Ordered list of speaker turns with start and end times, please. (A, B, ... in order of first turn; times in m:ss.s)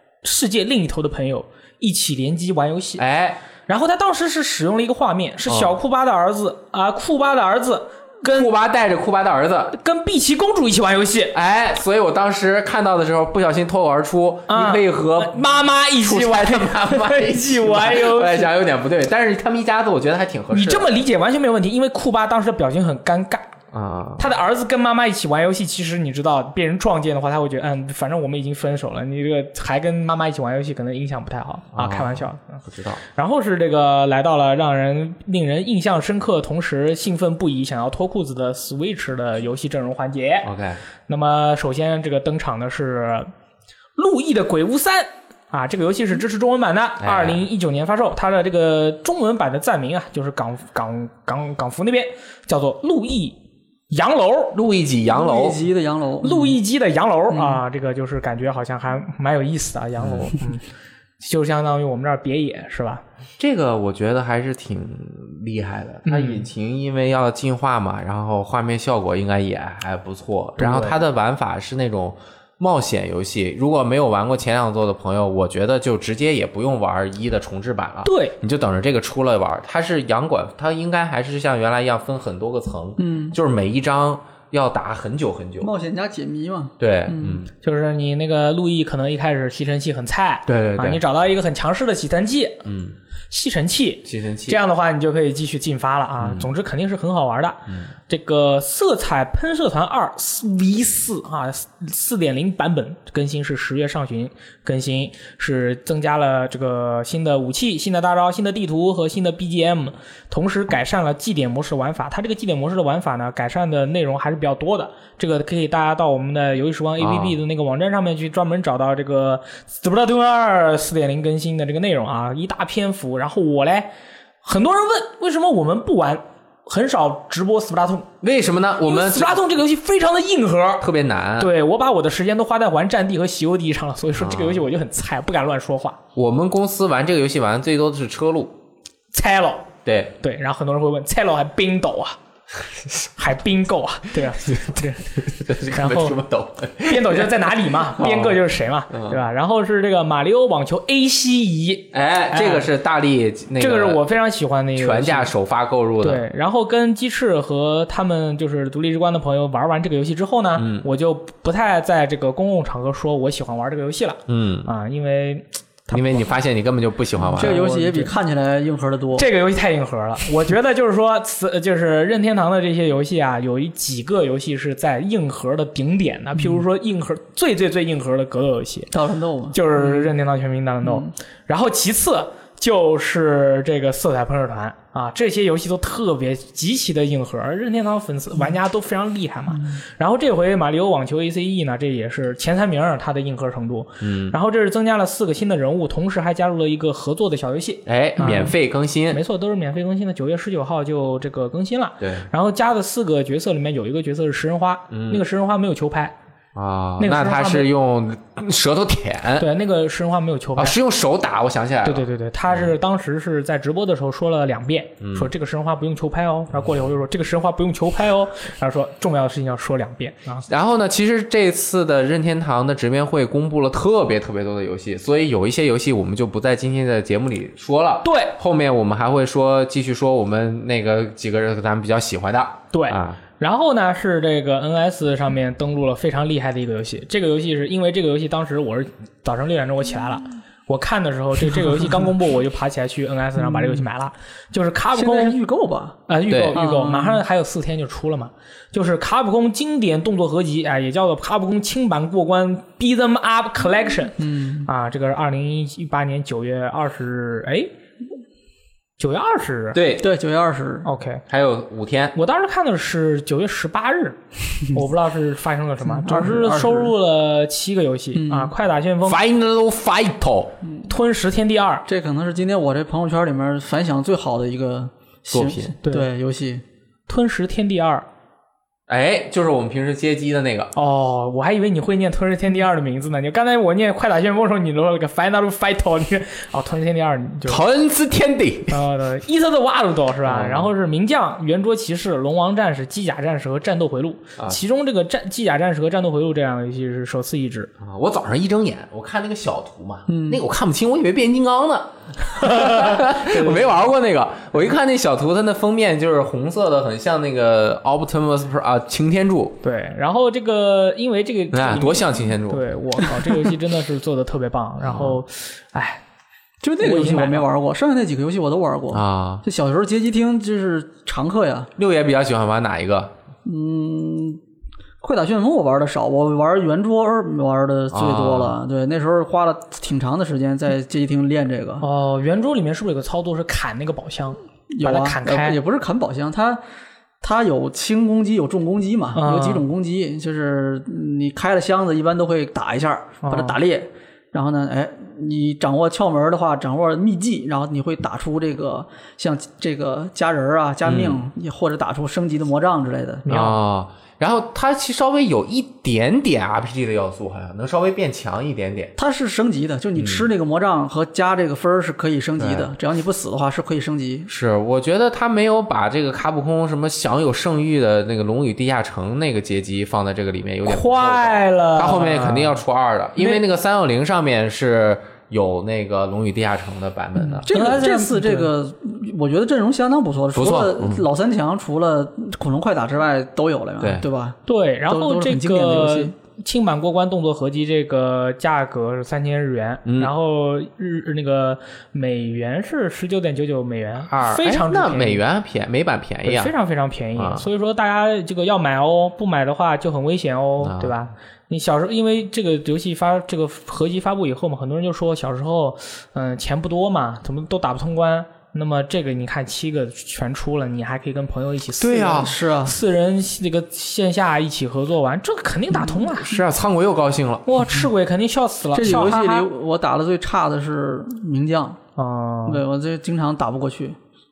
0:00.2-0:03.0 A
0:03.0-0:03.4 B
0:03.6-0:08.5 A
0:05.5-0:05.7 B
0:08.2-0:09.7 B
0:09.7-0:11.3 A
0:11.3-0:20.9 B
0:14.5-0:18.5 A
0:20.5-0:23.5 A
0:23.7-0:24.3 B
0:24.2-0:40.5 A
0:31.7-0:33.0 B
0:40.4-0:40.8 B
0:41.1-0:43.3 A
0:44.0-0:53.4 A
0:47.0-0:47.4 B
0:53.9-0:54.6 A
0:54.5-0:55.6 B
0:55.1-0:56.6 C
0:56.2-1:00.6 A
0:57.3-0:57.6 C
1:00.0-1:00.3 B
1:01.2-1:03.0 A
1:03.4-1:25.7 B
1:06.0-1:06.4 A
1:10.6-1:11.0 A
1:18.0-1:18.3 A
1:23.0-1:23.3 C
1:25.6-1:27.4 C
1:26.8-1:27.5 B
1:27.6-1:32.6 A
1:30.5-1:31.0 B
1:32.6-1:33.0 B
1:33.3-2:03.9 A
1:34.0-1:34.6 B
1:36.2-1:36.5 B
1:57.0-1:57.4 B
2:04.4-2:08.1 A
2:08.2-2:09.4 B
2:08.8-2:10.8 A
2:10.8-2:11.5 B
2:11.4-2:16.0 A
2:14.2-2:14.6 B
2:16.1-2:18.5 B
2:19.1-2:19.7 A
2:19.8-2:20.1 B
2:20.2-2:22.2 A
2:23.2-2:26.2 A
2:24.4-2:27.3 B
2:26.8-2:32.7 A
2:27.9-2:29.2 B
2:31.9-2:34.0 B
2:33.6-2:35.3 A
2:34.8-2:36.2 B
2:36.0-2:46.3 A
2:40.6-2:40.8 B
2:44.3-2:44.7 B
2:45.9-2:47.6 B
2:47.3-2:49.3 C
2:47.3-2:48.1 A
2:49.2-2:58.9 A
2:56.4-2:56.6 C
2:58.9-3:00.1 C
2:59.5-3:18.5 A
3:00.8-3:01.1 C
3:14.0-3:14.4 B
3:17.8-3:19.2 B
3:19.1-3:26.1 A
3:22.0-3:22.3 B
3:24.9-3:25.2 B
3:26.5-3:29.5 B
3:27.0-3:27.7 A
3:29.4-3:30.8 A
3:30.6-3:32.7 B
3:31.8-3:40.5 A
3:35.0-3:35.3 B
3:40.5-3:53.2 B
3:48.0-3:48.4 A
3:52.7-4:05.4 A
4:03.4-4:03.8 C
4:04.9-4:06.0 C
4:06.1-4:17.7 A
4:06.3-4:06.6 B
4:06.5-4:07.2 C
4:14.2-4:14.7 C
4:19.0-4:19.8 A
4:19.7-4:20.1 B
4:20.0-4:20.9 C
4:20.8-4:21.2 A
4:21.3-4:22.2 B
4:22.1-4:29.2 A
4:25.8-4:26.9 C
4:28.1-4:28.5 C
4:29.0-4:30.5 B
4:30.6-4:30.9 C
4:30.9-4:31.8 A
4:31.9-4:36.6 C
4:35.3-4:35.7 B
4:37.1-4:38.1 A
4:38.9-4:40.7 B
4:40.7-4:47.6 A
4:47.4-4:48.8 B
4:48.7-4:57.7 A
4:50.2-4:50.7 B
4:57.8-5:09.6 B
5:00.1-5:00.4 C
5:02.3-5:03.8 A
5:09.6-5:16.0 A
5:11.5-5:12.6 B
5:14.8-5:15.2 B
5:16.6-5:21.7 C
5:16.8-5:17.5 A
5:18.9-5:19.4 B
5:21.8-5:23.1 B
5:23.4-5:24.4 C
5:25.0-5:31.8 C
5:27.9-5:28.6 B
5:31.8-5:35.6 A
5:34.7-5:36.6 C
5:37.2-5:53.2 C
5:39.1-5:39.6 A
5:43.2-5:43.6 A
5:50.8-5:51.3 B
5:53.2-5:53.6 A
5:53.3-5:58.9 B
5:59.0-6:04.3 C
6:00.0-6:00.3 B
6:02.4-6:02.7 B
6:04.3-6:17.5 B
6:10.6-6:12.6 A
6:17.3-6:26.1 C
6:17.5-6:18.5 A
6:20.3-6:21.0 B
6:23.8-6:24.0 B
6:24.5-6:35.2 A
6:29.8-6:30.1 B
6:34.1-6:36.5 B
6:36.2-6:56.4 A
6:37.2-6:37.4 B
6:40.6-6:41.0 B
6:51.8-6:52.3 B
6:52.0-6:52.8 C
6:56.2-6:57.5 B
6:57.4-6:59.5 A
6:58.7-7:01.8 C
7:02.0-7:02.6 A
7:02.5-7:04.0 C